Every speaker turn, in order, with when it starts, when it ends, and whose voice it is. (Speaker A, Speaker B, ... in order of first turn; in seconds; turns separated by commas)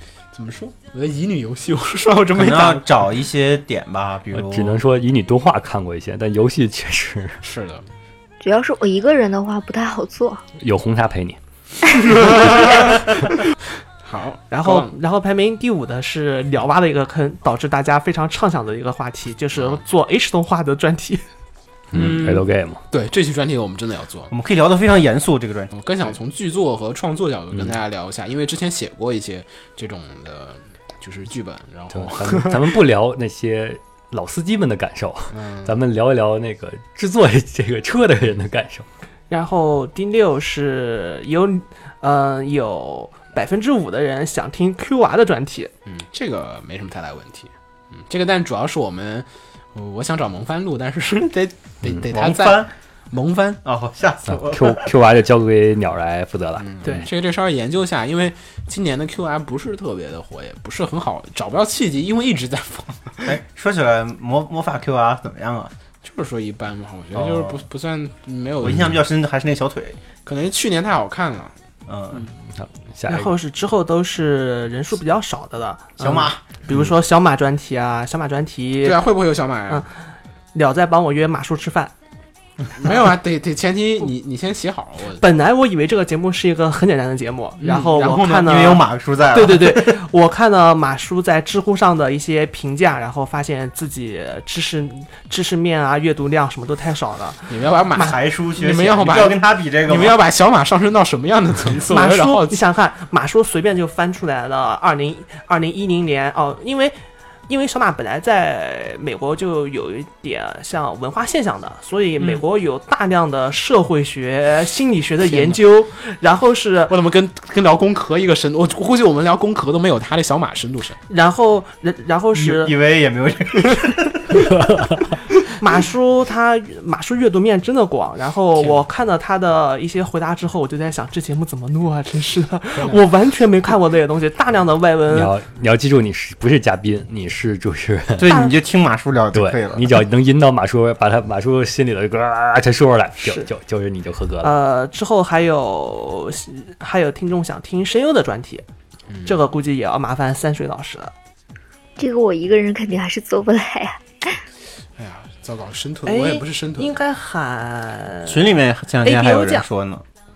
Speaker A: 0.3-2.9, Speaker B: 2.4-4.8, Speaker C: 4.3-7.4, Speaker A: 7.4-7.9, Speaker D: 8.4-10.4, Speaker C: 10.6-11.4, Speaker A: 12.1-13.2, Speaker A: 14.0-14.9, Speaker E: 14.5-21.2, Speaker C: 21.9-22.8, Speaker A: 21.9-24.3, Speaker B: 24.3-25.7, Speaker A: 25.7-32.8, Speaker C: 31.9-38.9, Speaker A: 35.3-35.8, Speaker E: 39.3-45.7, Speaker A: 45.9-53.6, Speaker B: 52.1-52.7, Speaker B: 53.6-54.9, Speaker C: 54.3-56.7, Speaker A: 56.6-63.4, Speaker E: 56.8-57.1, Speaker B: 63.2-65.7, Speaker A: 66.0-69.0, Speaker B: 67.1-67.6, Speaker B: 68.6-70.0, Speaker A: 70.3-71.5, Speaker B: 71.9-72.3, Speaker C: 72.5-73.3, Speaker E: 73.1-79.1, Speaker B: 76.0-76.6, Speaker A: 78.8-79.9, Speaker E: 79.7-79.9, Speaker E: 80.5-81.9, Speaker A: 82.8-85.2, Speaker E: 82.8-83.1, Speaker E: 85.2-98.1, Speaker A: 87.6-88.3, Speaker B: 88.1-90.0, Speaker A: 97.5-102.6, Speaker B: 97.9-100.2, Speaker E: 101.9-117.0, Speaker A: 115.2-115.6, Speaker A: 116.9-121.0, Speaker E: 121.1-122.8, Speaker B: 122.4-124.4, Speaker E: 125.6-135.3, Speaker C: 135.1-138.3, Speaker B: 138.2-140.0, Speaker E: 138.3-138.6, Speaker C: 139.3-144.5, Speaker E: 143.2-143.5, Speaker E: 144.4-148.7, Speaker A: 149.1-149.4, Speaker E: 149.2-151.1, Speaker D: 152.0-154.4, Speaker A: 155.0-157.0, Speaker E: 156.1-158.5, Speaker B: 158.3-160.0, Speaker E: 159.0-159.7